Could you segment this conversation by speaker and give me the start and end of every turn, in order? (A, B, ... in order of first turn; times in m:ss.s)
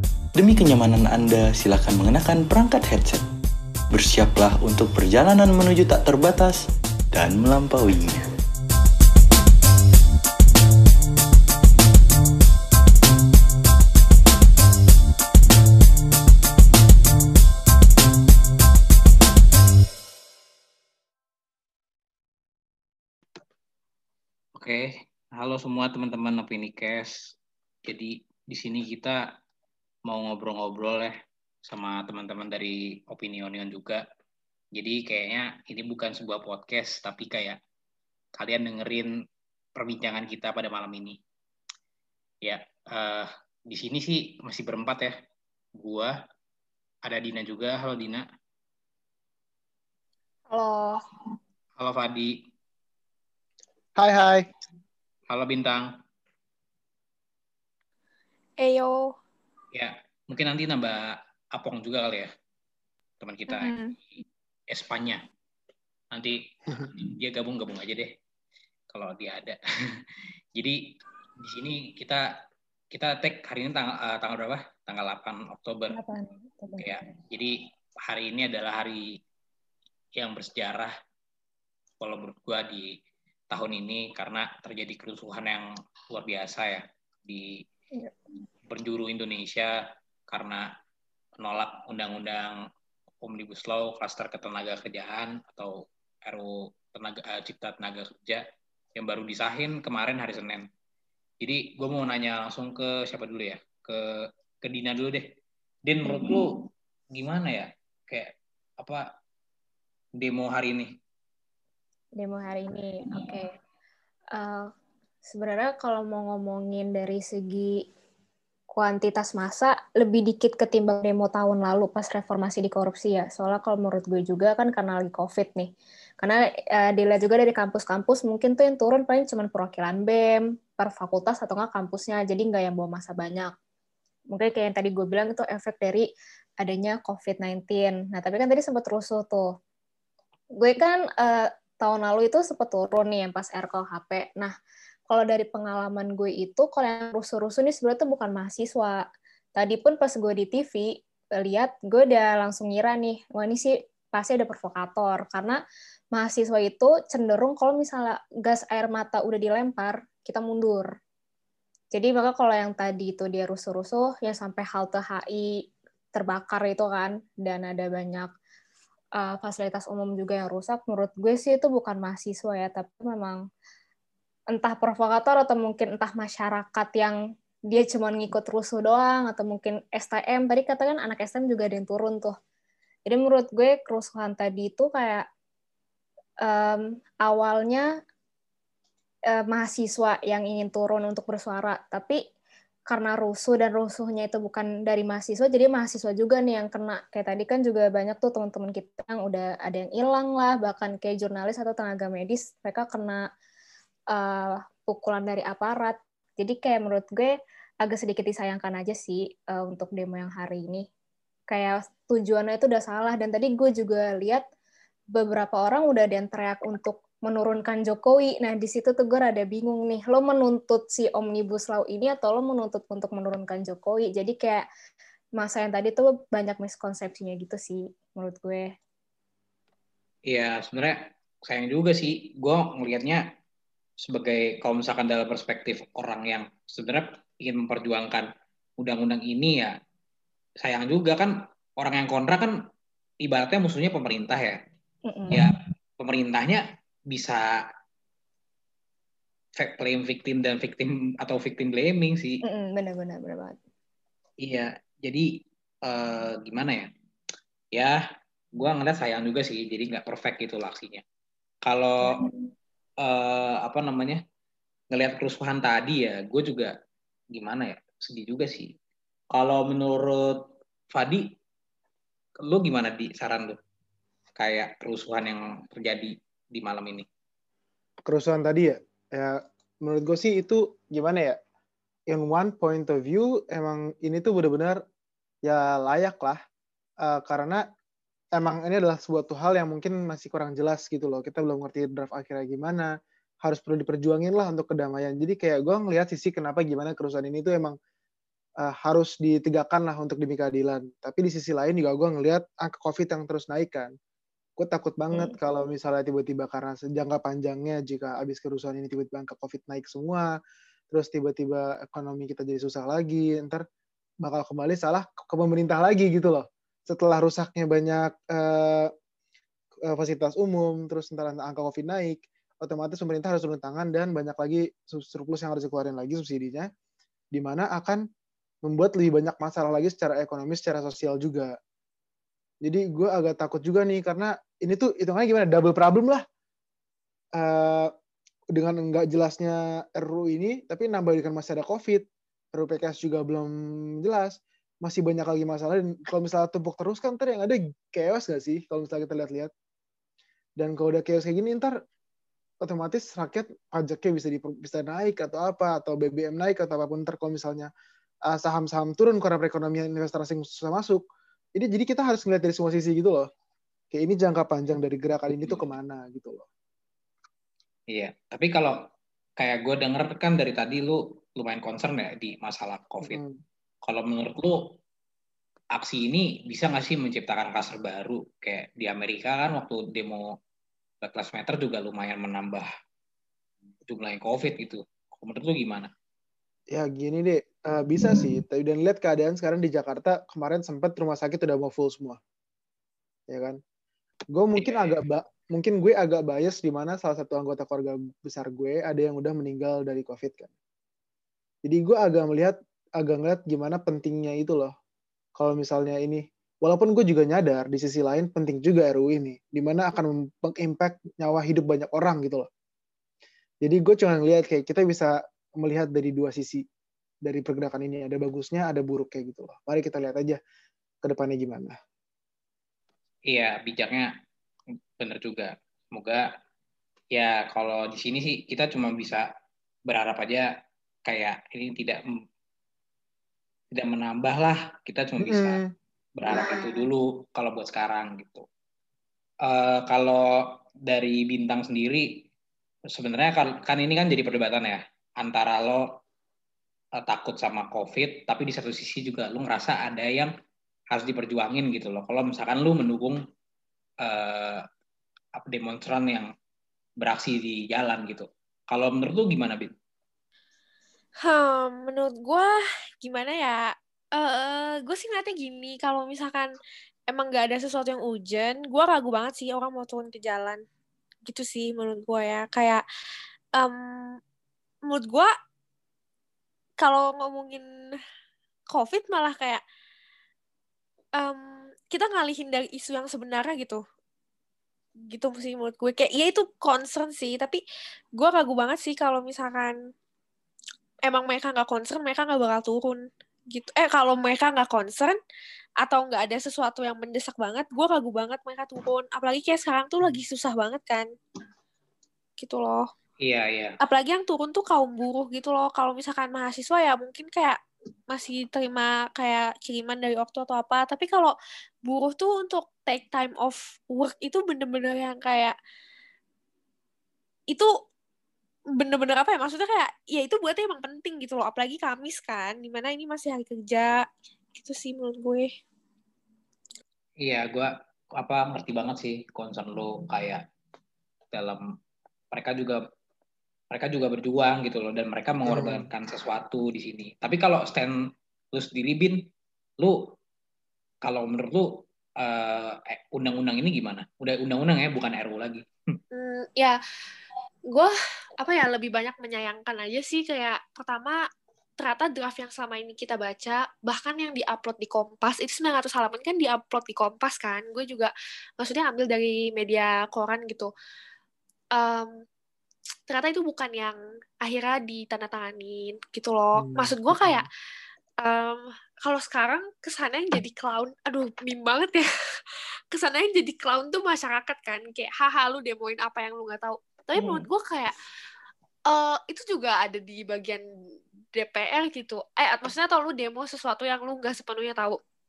0:00.4-0:03.3 A
0:03.9-0:08.2 A
0:24.6-0:27.3 B
0:27.9-0:29.2 B
0:30.1-0:31.1 B
0:31.6-0:34.0 B
0:34.8-0:37.6 B
0:38.4-0:39.2 B
0:39.8-0:41.2 B
0:42.4-0:45.1 B
0:45.8-0:46.2 B
0:47.0-0:48.2 B
0:50.5-0:51.0 C
0:51.8-0:52.4 B
0:54.0-0:54.5 D
0:55.3-0:55.9 B
0:58.6-0:59.0 E
0:59.7-1:02.3 B
1:03.2-1:03.7 B
1:03.5-1:04.0 E
1:04.7-1:05.2 B
1:06.1-1:08.1 B
1:08.9-1:10.0 B
1:10.6-1:12.3 B
1:12.9-1:16.0 B
1:15.9-1:16.9 C
1:16.8-1:19.2 B
1:20.2-1:20.9 B
1:22.0-1:22.9 B
1:23.5-1:27.6 B
1:28.7-1:30.7 B
1:31.4-1:32.6 B
1:33.2-1:38.4 B
1:39.0-1:40.7 B
1:41.4-1:44.0 B
1:44.6-1:45.3 B
1:45.9-1:49.0 B
1:50.2-1:50.9 B
1:52.2-1:53.5 C
1:54.4-1:54.7 C
1:55.3-1:57.8 C
1:58.7-2:13.5 C
2:14.3-2:16.1 C
2:16.6-2:19.5 C
2:20.6-2:24.5 C
2:25.1-2:29.0 C
2:29.6-2:35.6 C
2:36.1-2:40.9 C
2:41.9-2:45.6 C
2:46.2-2:48.3 C
2:49.2-2:53.4 C
2:54.5-2:57.2 C
2:57.7-3:02.4 C
3:03.1-3:05.3 C
3:06.4-3:07.9 C
3:09.3-3:12.2 C
3:12.9-3:23.3 C
3:24.1-3:30.9 C
3:31.5-3:34.4 C
3:35.1-3:44.6 C
3:45.4-3:48.7 C
3:50.3-3:53.3 B
3:54.0-3:59.8 B
4:00.6-4:02.6 B
4:03.2-4:04.6 B
4:05.1-4:05.4 C
4:05.3-4:07.6 B
4:09.6-4:12.4 B
4:12.4-4:13.6 C
4:14.4-4:16.9 B
4:17.7-4:18.0 B
4:18.6-4:21.0 B
4:21.6-4:22.2 B
4:22.1-4:22.3 C
4:23.0-4:24.2 B
4:24.9-4:26.7 B
4:27.3-4:28.7 B
4:29.3-4:31.3 B
4:32.4-4:33.6 B
4:34.4-4:37.1 B
4:38.1-4:41.4 D
4:42.1-4:44.8 D
4:45.4-4:46.4 D
4:47.0-4:47.6 D
4:48.4-4:52.9 D
4:53.4-4:57.8 D
4:58.6-5:03.9 D
5:04.6-5:10.3 D
5:10.9-5:13.6 D
5:14.2-5:18.9 D
5:19.9-5:26.7 D
5:27.3-5:28.0 D
5:28.6-5:31.6 D
5:32.6-5:36.2 D
5:37.4-5:37.9 D
5:38.5-5:49.5 D
5:50.6-5:51.8 D
5:52.6-5:57.7 D
5:58.3-6:01.0 D
6:01.6-6:03.3 D
6:03.9-6:06.5 D
6:07.9-6:08.8 B
6:09.4-6:13.2 B
6:13.0-6:13.4 D
6:13.8-6:14.6 B
6:15.8-6:20.4 B
6:21.0-6:22.7 B
6:23.9-6:25.9 B
6:26.7-6:32.2 D
6:33.3-6:33.6 D
6:34.3-6:40.5 D
6:34.6-6:35.0 B
6:41.6-6:44.7 D
6:45.4-6:52.5 D
6:53.6-6:56.6 D
6:57.2-7:00.4 D
7:01.0-7:01.8 D
7:03.3-7:04.1 B
7:05.0-7:06.3 B
7:07.1-7:09.3 B
7:09.9-7:10.5 B
7:11.1-7:12.0 B
7:13.7-7:15.6 B
7:15.2-7:15.7 D
7:16.2-7:18.4 B
7:19.4-7:22.3 B
7:22.9-7:26.0 B
7:27.0-7:30.3 B
7:30.9-7:33.2 B
7:34.0-7:34.6 B
7:35.4-7:36.3 B
7:37.0-7:39.7 B
7:41.2-7:46.5 E
7:47.1-7:50.6 E
7:51.2-7:52.8 E
7:53.6-7:54.2 E
7:54.9-7:55.3 E
7:56.8-7:57.6 E
7:58.7-7:59.6 E
8:01.2-8:03.8 E
8:05.1-8:07.6 E
8:08.2-8:09.8 E
8:11.1-8:15.2 E
8:15.8-8:21.1 E
8:22.4-8:22.9 E
8:23.2-8:23.8 B
8:23.8-8:27.6 E
8:28.1-8:31.3 E
8:31.8-8:35.6 E
8:38.8-8:45.5 E
8:47.2-8:50.4 B
8:51.3-8:51.6 B
8:52.3-8:52.8 B
8:53.7-8:58.0 B
8:55.5-8:55.9 D
8:58.5-8:59.2 B
8:59.8-9:00.1 B
9:01.0-9:06.0 B
9:06.1-9:06.8 E
9:07.7-9:11.2 E
9:11.8-9:20.7 E
9:21.7-9:22.1 E
9:23.1-9:27.5 E
9:26.6-9:27.5 D
9:28.2-9:32.1 E
9:32.9-9:37.9 E
9:37.2-9:37.5 D
9:38.9-9:40.6 E
9:41.3-9:45.0 E